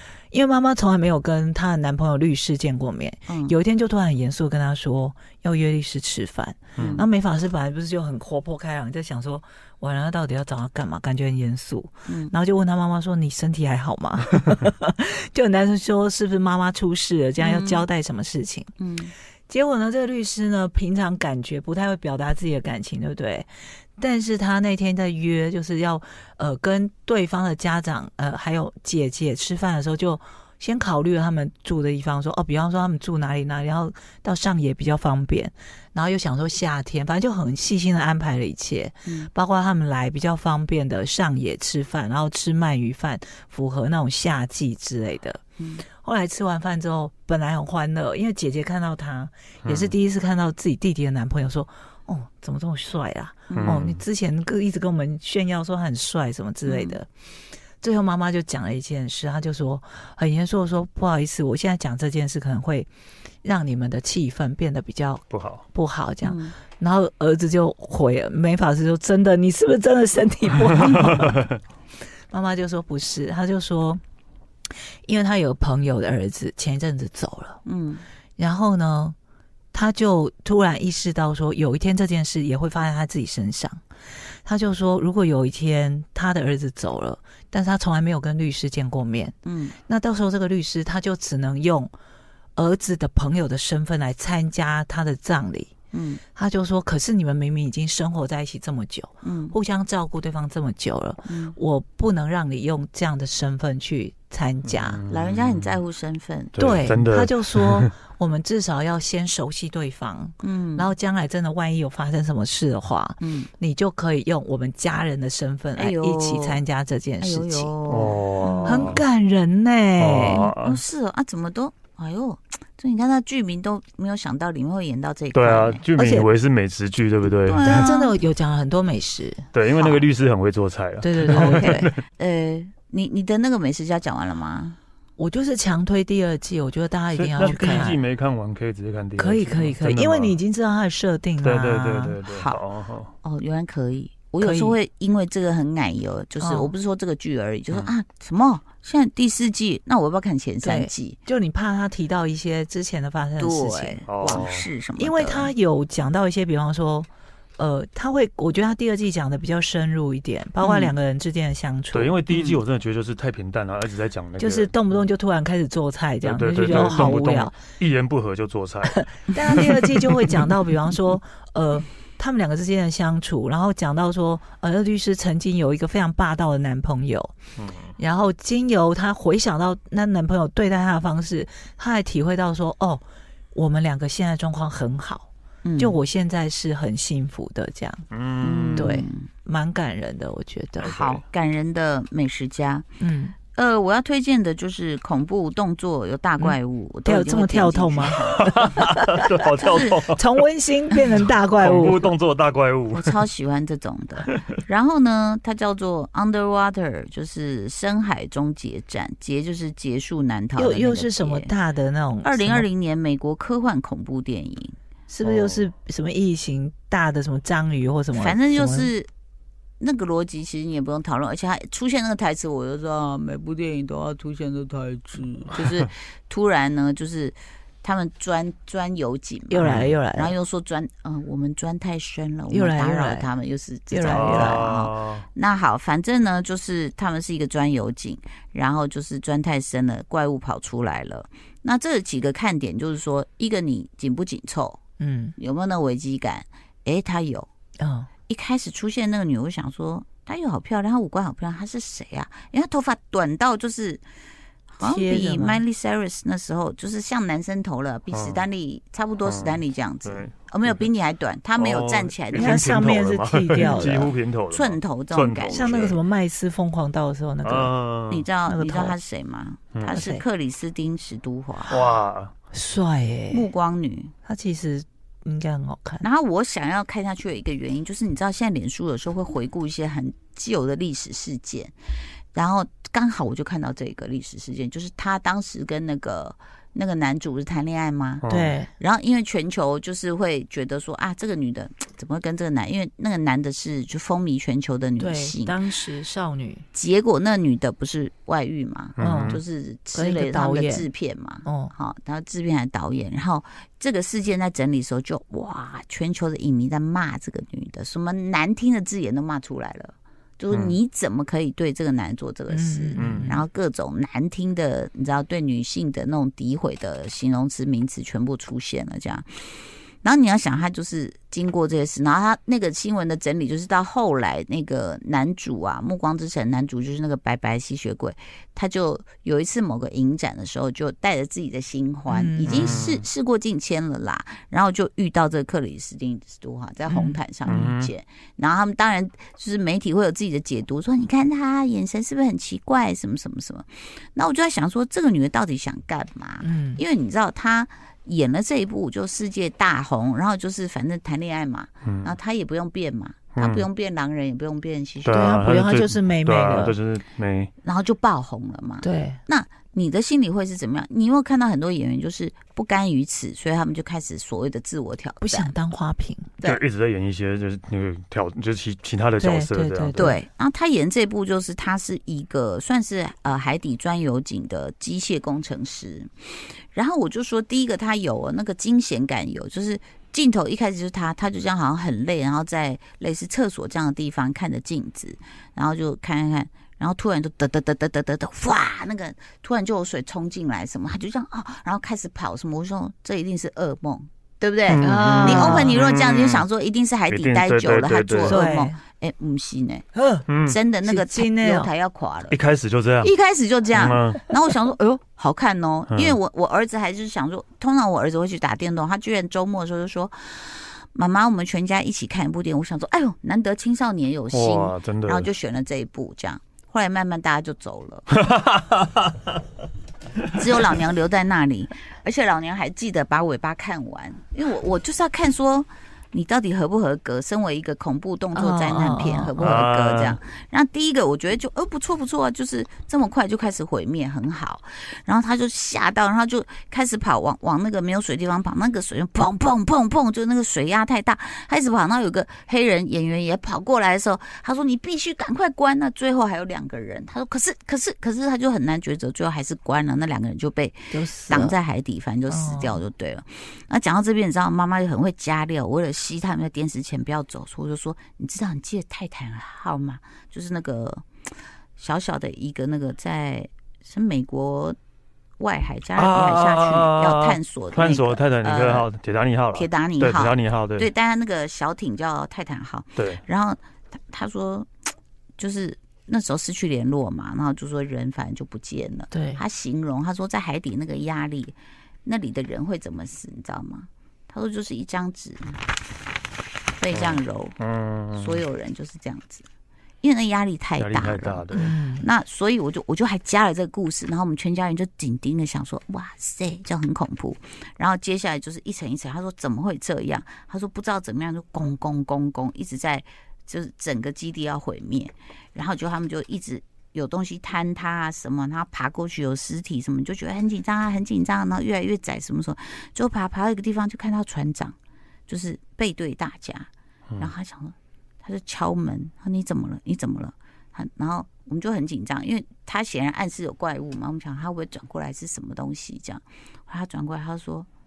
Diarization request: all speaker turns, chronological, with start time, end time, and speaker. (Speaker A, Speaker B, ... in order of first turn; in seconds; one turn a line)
Speaker A: 0.3-18.7
Speaker B: 3.3-3.6
Speaker C: 6.8-7.0
Speaker B: 6.8-7.1
Speaker B: 12.1-12.3
Speaker B: 17.4-17.9
Speaker B: 18.8-19.1
Speaker A: 19.5-45.4
Speaker B: 45.6-45.9
Speaker A: 46.0-57.1
Speaker C: 49.6-50.0
Speaker B: 53.5-53.9
Speaker C: 53.5-54.0
Speaker B: 56.7-57.0
Speaker A: 57.8-62.9
Speaker A: 63.4-71.4
Speaker C: 65.3-65.7
Speaker B: 66.2-66.6
Speaker C: 71.0-71.5
Speaker A: 72.3-74.0
Speaker A: 75.0-77.6
Speaker B: 77.7-78.0
Speaker A: 78.4-79.2
Speaker A: 79.7-83.8
Speaker A: 84.4-89.4
Speaker B: 89.5-89.8
Speaker A: 89.9-91.9
Speaker A: 92.6-95.7
Speaker B: 95.9-96.2
Speaker A: 96.3-105.0
Speaker B: 99.2-99.6
Speaker B: 101.3-101.6
Speaker C: 104.6-105.8
Speaker B: 105.1-106.8
Speaker C: 106.5-107.9
Speaker A: 106.6-117.7
Speaker B: 110.4-110.9
Speaker B: 113.2-113.5
Speaker B: 115.8-116.6
Speaker B: 117.2-119.0
Speaker C: 117.9-119.0
Speaker A: 118.7-120.4
Speaker C: 120.0-120.8
Speaker B: 120.1-125.8
Speaker C: 125.3-127.9
Speaker A: 126.0-126.3
Speaker B: 127.2-128.2
Speaker A: 127.6-129.5
Speaker C: 129.5-132.0
Speaker B: 129.7-130.0
Speaker A: 131.0-131.9
Speaker B: 132.2-134.8
Speaker A: 135.2-138.0
Speaker C: 137.2-140.4
Speaker B: 137.6-137.9
Speaker A: 139.2-142.2
Speaker C: 141.4-143.1
Speaker B: 142.3-142.6
Speaker B: 143.2-151.2
Speaker A: 144.4-144.8
Speaker A: 146.4-146.8
Speaker A: 150.6-154.4
Speaker B: 153.4-155.5
Speaker C: 154.1-154.7
Speaker A: 155.0-162.2
Speaker B: 160.6-160.9
Speaker C: 161.9-164.8
Speaker B: 162.3-162.6
Speaker A: 164.4-167.6
Speaker C: 166.2-170.5
Speaker A: 168.9-177.3
Speaker C: 177.6-177.9
Speaker A: 178.0-188.0
Speaker B: 185.7-186.0
Speaker C: 188.1-189.0
Speaker B: 188.4-189.3
Speaker A: 188.8-190.9
Speaker C: 190.8-191.2
Speaker B: 190.8-192.9
Speaker A: 193.0-193.3
Speaker B: 193.5-198.7
Speaker A: 196.4-198.9
Speaker C: 198.3-200.3
Speaker B: 199.6-200.0
Speaker A: 200.2-202.1
Speaker C: 201.2-203.2
Speaker B: 202.9-211.5
Speaker A: 210.6-212.7
Speaker B: 212.2-214.8
Speaker A: 215.1-218.9
Speaker C: 215.2-215.7
Speaker B: 218.1-219.1
Speaker B: 219.8-244.8
Speaker A: 229.5-230.4
Speaker C: 229.6-229.9
Speaker A: 232.5-233.3
Speaker A: 233.9-234.7
Speaker C: 234.1-235.3
Speaker A: 245.0-245.3
Speaker B: 245.4-247.5
Speaker A: 247.8-248.1
Speaker B: 248.3-254.0
Speaker B: 254.7-262.8
Speaker A: 254.8-255.6
Speaker C: 258.1-258.5
Speaker C: 259.2-260.9
Speaker C: 261.6-266.0
Speaker A: 262.3-264.1
Speaker B: 264.5-265.9
Speaker A: 265.5-267.7
Speaker C: 267.4-268.3
Speaker B: 268.1-271.7
Speaker A: 268.5-269.0
Speaker A: 269.9-270.2
Speaker C: 271.7-272.3
Speaker A: 272.5-273.5
Speaker B: 273.3-274.1
Speaker A: 274.3-276.0
Speaker B: 276.0-281.8
Speaker B: 282.3-295.6
Speaker C: 288.2-288.6
Speaker A: 288.3-288.7
Speaker A: 295.0-296.6
Speaker B: 296.7-355.3
Speaker C: 299.0-299.4
Speaker A: 299.0-299.4
Speaker A: 299.9-300.9
Speaker A: 301.4-301.7
Speaker C: 310.5-310.8
Speaker A: 312.5-313.4
Speaker C: 313.0-313.4
Speaker A: 332.1-332.8
Speaker C: 332.4-333.1
Speaker A: 336.9-337.2
Speaker C: 337.5-337.9
Speaker A: 346.4-346.8
Speaker C: 351.9-352.1
Speaker C: 353.4-353.7
Speaker C: 355.1-357.5
Speaker A: 355.1-356.8
Speaker B: 357.6-365.5
Speaker A: 358.8-359.2
Speaker A: 365.2-366.4
Speaker C: 366.4-370.1
Speaker A: 369.2-370.2
Speaker B: 370.0-376.1
Speaker B: 376.7-399.9
Speaker C: 394.7-396.5
Speaker A: 394.8-395.8
Speaker C: 397.1-398.4
Speaker A: 398.2-398.8
Speaker A: 399.9-400.3
Speaker C: 400.3-400.6
Speaker B: 400.5-402.4
Speaker A: 400.9-401.7
Speaker C: 402.3-403.1
Speaker B: 403.0-418.1
Speaker C: 403.7-404.3
Speaker C: 405.9-406.2
Speaker C: 414.3-415.3
Speaker C: 418.2-419.3
Speaker B: 420.3-461.1
Speaker A: 428.3-429.3
Speaker C: 429.4-430.2
Speaker A: 450.9-451.6
Speaker A: 452.3-452.8
Speaker B: 461.8-464.8
Speaker B: 465.4-468.9
Speaker C: 466.0-470.9
Speaker B: 469.5-474.7
Speaker C: 473.0-473.2
Speaker B: 475.4-485.6
Speaker A: 479.1-479.4
Speaker B: 486.8-487.6
Speaker C: 486.9-488.4
Speaker B: 488.1-489.5
Speaker B: 490.0-514.8
Speaker C: 490.8-491.7
Speaker A: 491.5-492.1
Speaker B: 515.3-527.7